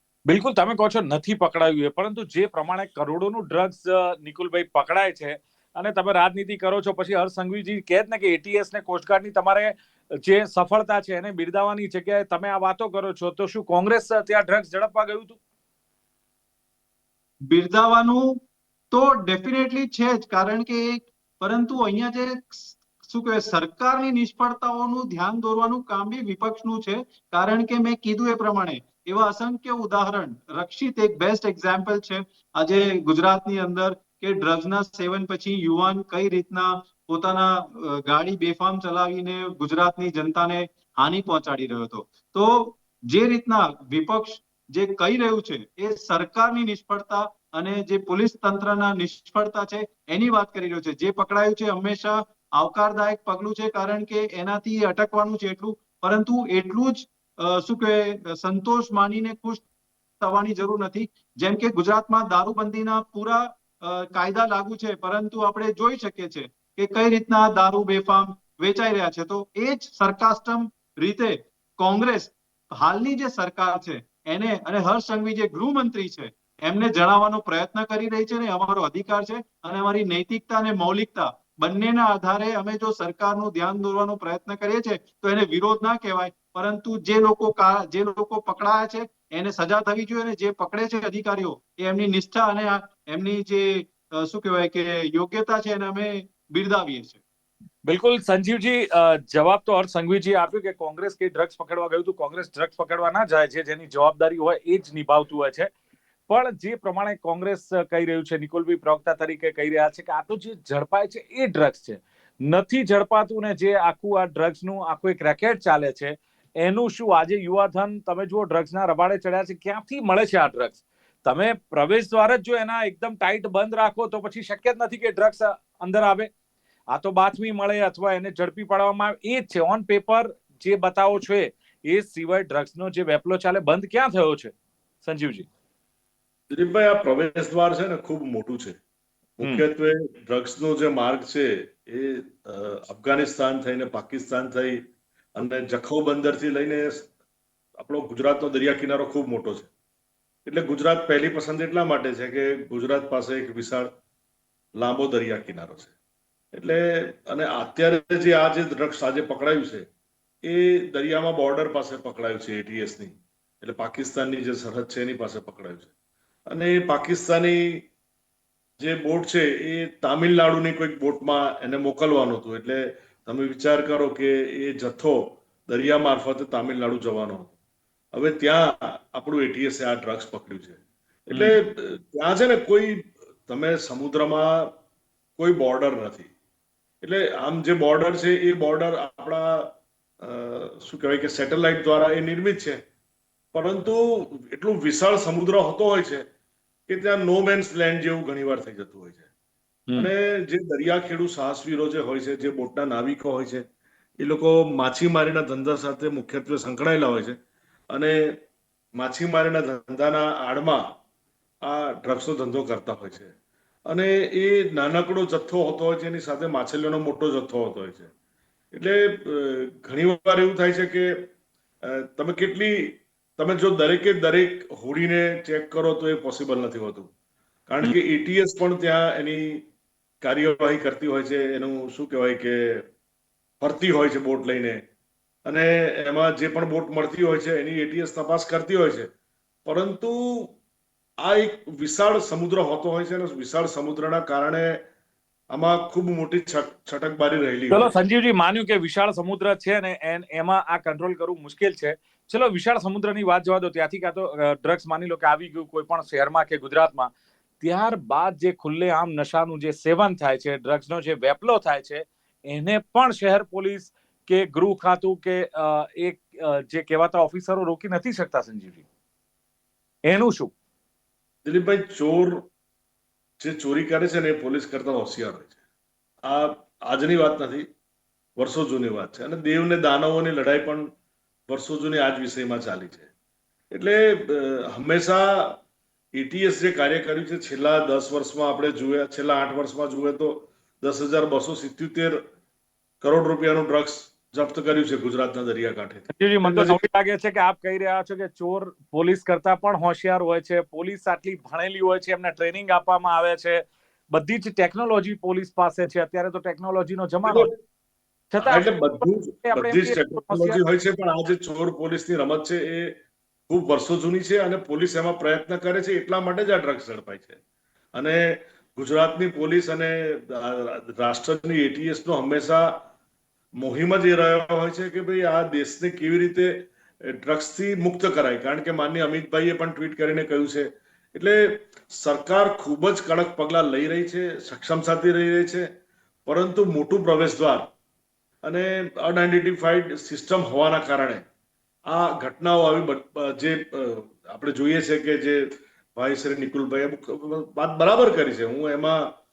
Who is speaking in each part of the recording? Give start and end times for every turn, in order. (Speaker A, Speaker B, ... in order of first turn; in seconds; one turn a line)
Speaker A: 0.3-15.4
Speaker B: 17.5-18.4
Speaker B: 18.9-59.6
Speaker B: 60.2-97.2
Speaker A: 97.8-105.7
Speaker A: 106.3-126.3
Speaker A: 126.9-134.5
Speaker A: 135.0-135.5
Speaker C: 136.5-138.8
Speaker C: 139.4-144.8
Speaker C: 145.4-147.1
Speaker C: 147.8-149.7
Speaker C: 150.5-153.9
Speaker C: 154.8-155.9
Speaker C: 156.5-159.9
Speaker C: 160.4-165.9
Speaker C: 166.5-167.8
Speaker C: 168.8-177.5
Speaker C: 178.1-184.7
Speaker A: 181.3-181.6
Speaker C: 185.4-186.3
Speaker C: 187.0-192.8
Speaker C: 193.5-196.2
Speaker C: 196.9-199.2
Speaker C: 200.0-203.7
Speaker C: 204.2-207.4
Speaker C: 207.9-208.4
Speaker C: 208.9-210.9
Speaker C: 211.6-213.3
Speaker C: 213.9-218.1
Speaker C: 218.7-221.3
Speaker C: 221.8-227.1
Speaker C: 227.7-229.7
Speaker C: 230.2-232.9
Speaker C: 233.6-234.8
Speaker C: 235.5-239.1
Speaker C: 239.7-240.6
Speaker C: 241.2-244.8
Speaker C: 245.5-247.9
Speaker A: 247.7-268.8
Speaker A: 270.1-270.5
Speaker C: 271.4-272.5
Speaker C: 273.4-275.5
Speaker C: 276.2-277.7
Speaker C: 278.4-280.9
Speaker C: 281.5-283.1
Speaker C: 283.7-285.6
Speaker C: 286.1-292.2
Speaker C: 293.0-296.8
Speaker A: 296.1-307.5
Speaker C: 307.2-307.5
Speaker A: 308.3-308.9
Speaker C: 308.4-317.4
Speaker A: 309.4-310.6
Speaker C: 317.9-322.9
Speaker C: 323.6-335.7
Speaker C: 336.3-337.7
Speaker C: 338.4-341.2
Speaker C: 341.9-349.1